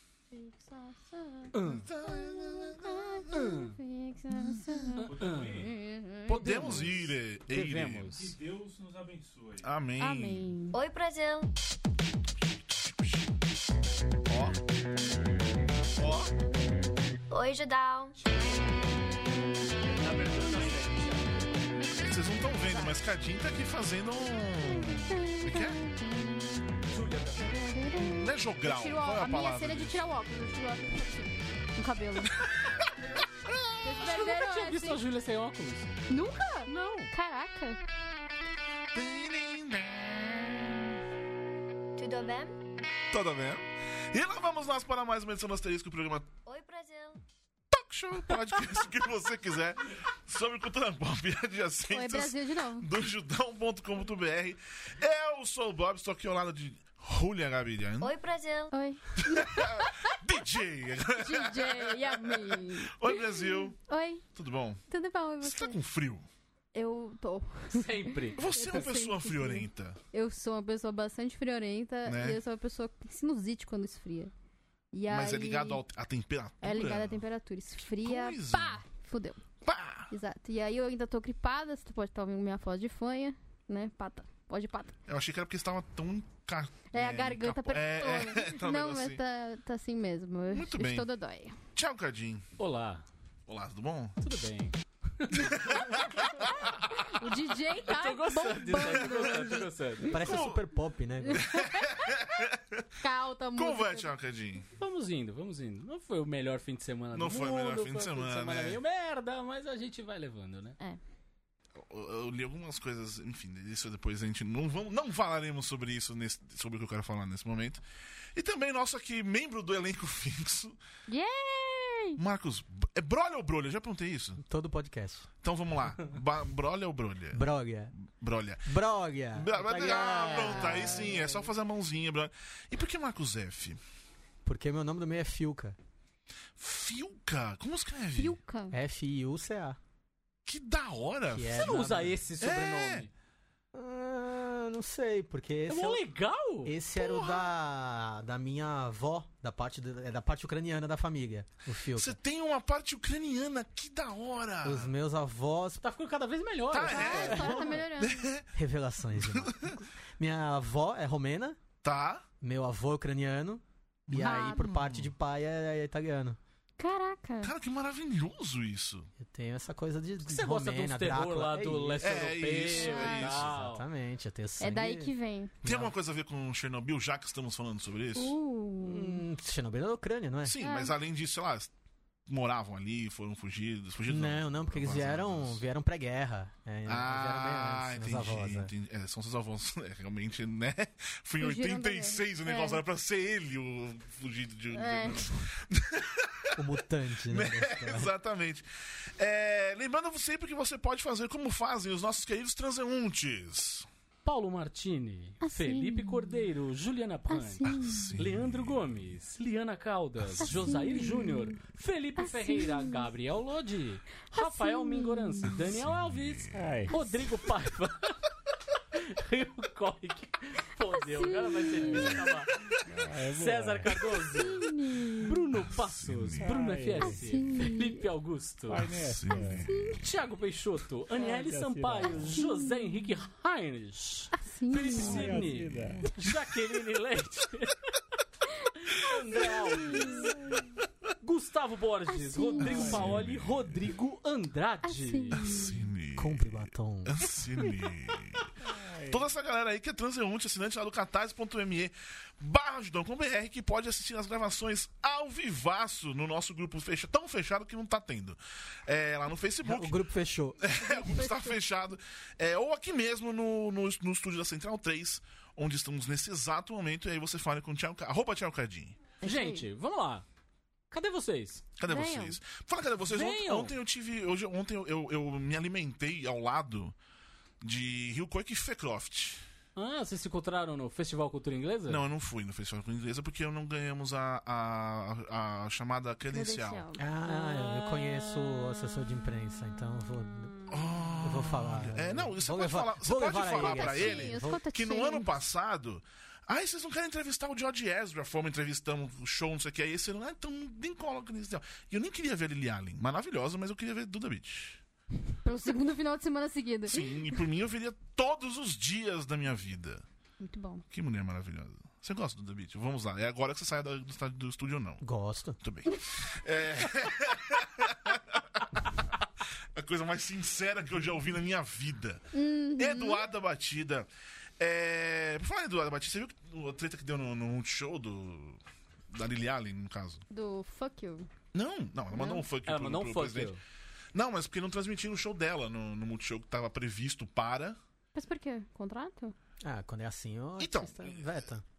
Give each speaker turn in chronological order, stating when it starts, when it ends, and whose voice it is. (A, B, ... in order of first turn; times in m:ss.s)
0:00.3-0:07.0 A
0:01.5-0:01.9 B
0:01.6-0:03.3 C
0:05.0-0:05.7 D
0:05.0-0:05.7 B
0:06.2-0:08.2 C
0:07.5-0:08.4 B
0:08.2-0:09.7 D
0:09.6-0:10.5 C
0:10.0-0:10.8 A
0:10.7-0:11.5 E
0:12.4-0:13.3 C
0:14.2-0:14.6 C
0:15.9-0:16.3 C
0:17.3-0:18.2 E
0:18.2-0:18.8 B
0:19.9-0:21.5 B
0:21.9-0:25.8 C
0:22.6-0:23.0 A
0:24.7-0:26.6 A
0:26.9-0:27.6 B
0:27.4-0:32.4 A
0:28.0-0:30.0 C
0:33.5-0:33.8 C
0:33.8-0:35.0 A
0:34.0-0:36.0 B
0:36.1-0:37.8 A
0:36.6-0:37.1 B
0:38.9-0:40.7 C
0:42.0-0:42.6 E
0:43.1-0:46.3 C
0:46.4-0:47.2 E
0:47.7-0:58.1 C
0:51.9-0:52.9 A
0:58.0-0:58.7 E
0:58.7-1:00.2 A
0:59.2-1:03.7 C
1:01.2-1:04.2 A
1:04.3-1:04.8 C
1:04.9-1:05.8 A
1:05.4-1:06.2 C
1:06.7-1:14.3 A
1:07.7-1:08.5 B
1:08.4-1:10.0 C
1:12.0-1:12.4 C
1:14.9-1:15.8 A
1:15.1-1:17.2 C
1:16.6-1:19.4 A
1:18.0-1:18.8 C
1:19.6-1:20.1 C
1:20.1-1:24.9 A
1:25.1-1:29.2 C
1:26.9-1:31.6 A
1:30.5-1:31.1 C
1:31.7-1:32.4 C
1:32.6-1:33.0 B
1:33.5-1:34.2 C
1:34.2-1:36.0 B
1:35.4-1:37.0 C
1:35.4-1:40.5 A
1:37.8-1:40.2 B
1:40.1-1:41.4 F
1:40.1-1:40.6 C
1:41.2-1:42.2 A
1:41.3-1:42.8 C
1:43.0-1:44.1 A
1:43.6-1:44.7 C
1:44.7-1:50.8 B
1:47.1-1:48.8 C
1:51.8-1:57.8 C
1:58.3-2:00.8 C
2:01.1-2:02.2 A
2:02.2-2:04.4 C
2:04.4-2:05.3 F
2:05.4-2:08.7 C
2:07.3-2:07.9 F
2:08.6-2:11.2 F
2:09.3-2:13.8 C
2:09.6-2:11.4 B
2:14.4-2:15.8 F
2:16.6-2:18.4 C
2:18.2-2:18.8 A
2:18.7-2:19.8 F
2:20.4-2:21.8 C
2:21.3-2:22.2 F
2:21.5-2:23.1 B
2:22.4-2:23.1 C
2:23.7-2:26.0 F
2:25.7-2:26.7 B
2:26.6-2:32.2 F
2:27.0-2:27.4 C
2:31.9-2:34.9 C
2:34.6-2:35.8 F
2:35.8-2:37.3 B
2:36.7-2:38.5 C
2:36.9-2:38.3 A
2:37.0-2:37.7 F
2:38.5-2:41.6 F
2:39.2-2:39.8 C
2:41.8-2:42.2 C
2:42.4-2:46.4 F
2:44.1-2:45.1 C
2:44.2-2:44.6 A
2:46.8-2:47.5 A
2:47.4-2:49.1 C
2:49.2-2:52.2 F
2:50.2-2:53.8 B
2:52.0-2:53.5 C
2:52.7-2:53.3 A
2:53.0-2:55.9 F
2:54.6-2:55.5 A
2:55.6-2:58.4 C
2:58.2-2:59.2 A
2:58.8-3:00.6 F
3:00.4-3:01.7 C
3:00.6-3:00.9 A
3:02.3-3:05.6 C
3:04.0-3:08.7 F
3:06.8-3:16.7 C
3:11.4-3:12.8 A
3:14.7-3:15.4 A
3:16.5-3:18.1 F
3:17.3-3:18.6 C
3:19.2-3:23.9 C
3:24.2-3:38.2 B
3:25.4-3:26.5 A
3:27.3-3:28.1 A
3:27.6-3:28.9 C
3:30.4-3:31.6 A
3:32.2-3:33.0 A
3:34.3-3:35.6 A
3:35.5-3:36.7 C
3:36.5-3:36.9 D
3:36.9-3:37.4 A
3:38.9-3:44.7 B
3:40.9-3:42.2 A
3:41.8-3:42.2 D
3:42.8-3:44.6 D
3:44.2-3:45.3 A
3:45.2-3:49.0 B
3:45.6-3:46.5 C
3:46.3-3:47.4 D
3:47.0-3:48.0 A
3:48.7-3:49.7 D
3:48.7-3:50.0 C
3:49.6-3:50.0 A
3:49.9-3:57.8 B
3:51.2-3:52.4 D
3:52.3-3:52.9 A
3:54.4-3:55.5 A
3:54.8-3:56.2 D
3:58.8-4:00.4 B
3:59.4-4:00.3 A
4:00.2-4:00.6 D
4:01.2-4:05.6 B
4:02.1-4:03.0 A
4:02.6-4:03.3 D
4:02.6-4:03.7 C
4:04.8-4:05.8 A
4:05.3-4:08.5 C
4:06.1-4:07.2 F
4:08.7-4:09.2 D
4:09.0-4:20.0 C
4:19.6-4:20.7 F
4:20.6-4:29.0 C
4:20.8-4:21.6 A
4:29.2-4:29.6 A
4:29.2-4:30.2 B
4:30.9-4:31.6 B
4:31.8-4:36.9 C
4:31.9-4:32.4 A
4:33.0-4:33.7 B
4:37.6-4:39.4 C
4:39.8-4:42.0 B
4:41.9-4:46.8 C
4:46.3-4:48.4 A
4:47.0-4:50.7 F
4:50.7-5:04.8 C
4:51.2-4:54.6 F
4:53.4-4:55.3 A
5:05.4-5:07.4 A
5:06.9-5:10.0 C
5:10.4-5:10.8 A
5:10.9-5:15.0 C
5:15.0-5:15.6 F
5:15.6-5:18.6 C
5:19.7-5:24.1 C
5:22.3-5:23.2 A
5:24.6-5:28.6 C
5:29.1-5:30.2 C
5:30.3-5:31.3 A
5:31.5-5:33.5 C
5:32.1-5:32.4 A
5:32.6-5:33.6 B
5:34.1-5:37.8 C
5:38.1-5:39.3 A
5:39.6-5:41.6 F
5:40.6-5:41.3 C